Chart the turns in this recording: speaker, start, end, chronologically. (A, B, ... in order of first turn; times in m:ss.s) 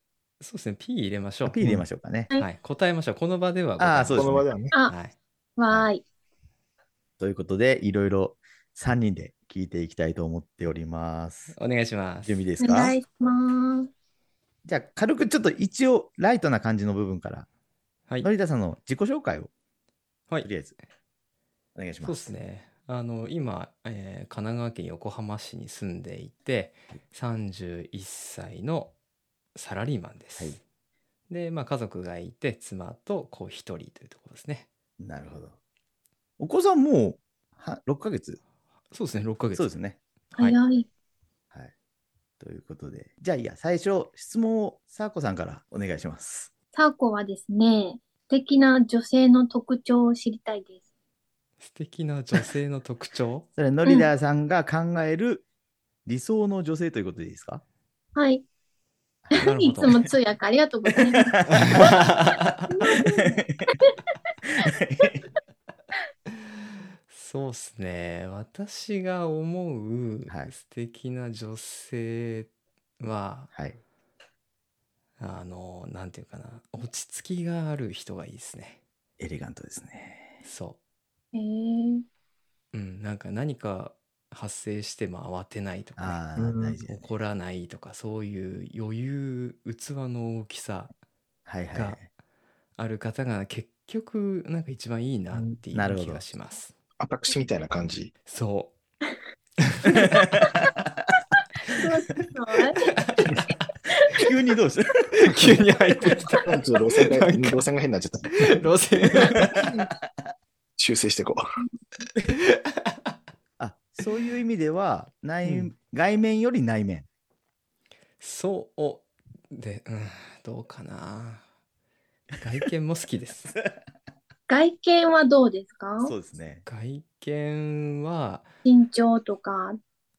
0:00.4-0:01.6 A
0:01.5-0:02.3 B
0:01.6-0:01.8 C
0:02.4-0:05.1 A
0:03.8-0:04.5 B
0:04.1-0:04.7 C
0:05.6-0:06.0 D
0:07.2-0:11.6 B
0:11.5-0:12.4 A
0:12.2-0:13.0 B
0:12.6-0:13.9 D
0:14.6-0:17.5 B
0:18.2-0:19.5 B
0:20.4-0:20.8 B
0:21.7-0:22.3 B
0:22.0-0:28.9 A
0:29.5-0:30.6 A
0:31.3-0:34.7 A
0:35.0-0:35.5 B
0:36.4-0:38.4 B
0:38.9-0:39.7 A
0:39.5-0:40.0 B
0:40.4-0:40.9 D
0:42.4-0:46.5 B
0:46.7-0:50.8 D
0:51.6-0:53.5 A
0:53.6-0:55.4 B
0:56.0-0:57.6 B
0:58.2-0:58.4 D
0:59.4-1:01.9 D
0:59.4-1:00.1 A
1:01.1-1:03.7 B
1:01.5-1:02.7 A
1:02.7-1:03.9 D
1:04.6-1:05.2 B
1:07.1-1:13.5 A
1:15.2-1:18.8 A
1:19.2-1:20.4 B
1:20.4-1:20.8 A
1:21.3-1:22.0 D
1:22.7-1:26.2 A
1:26.0-1:27.1 B
1:26.4-1:26.8 C
1:26.9-1:30.9 A
1:31.4-1:32.1 B
1:31.7-1:32.0 A
1:32.8-1:36.7 A
1:35.7-1:36.2 B
1:37.0-1:38.1 C
1:38.2-1:38.7 A
1:39.6-1:40.0 A
1:40.1-1:40.7 B
1:41.7-1:42.9 D
1:42.9-1:43.4 A
1:44.0-1:45.5 B
1:45.2-1:46.5 A
1:46.4-1:49.9 C
1:47.1-1:47.6 A
1:48.4-1:49.4 A
1:49.3-1:49.7 B
1:50.8-1:51.4 C
1:52.3-1:53.1 A
1:53.6-1:57.0 B
1:55.4-1:55.7 A
1:58.2-2:01.4 A
2:02.4-2:03.5 A
2:04.5-2:06.1 D
2:06.0-2:06.6 B
2:06.6-2:08.5 A
2:08.6-2:09.8 D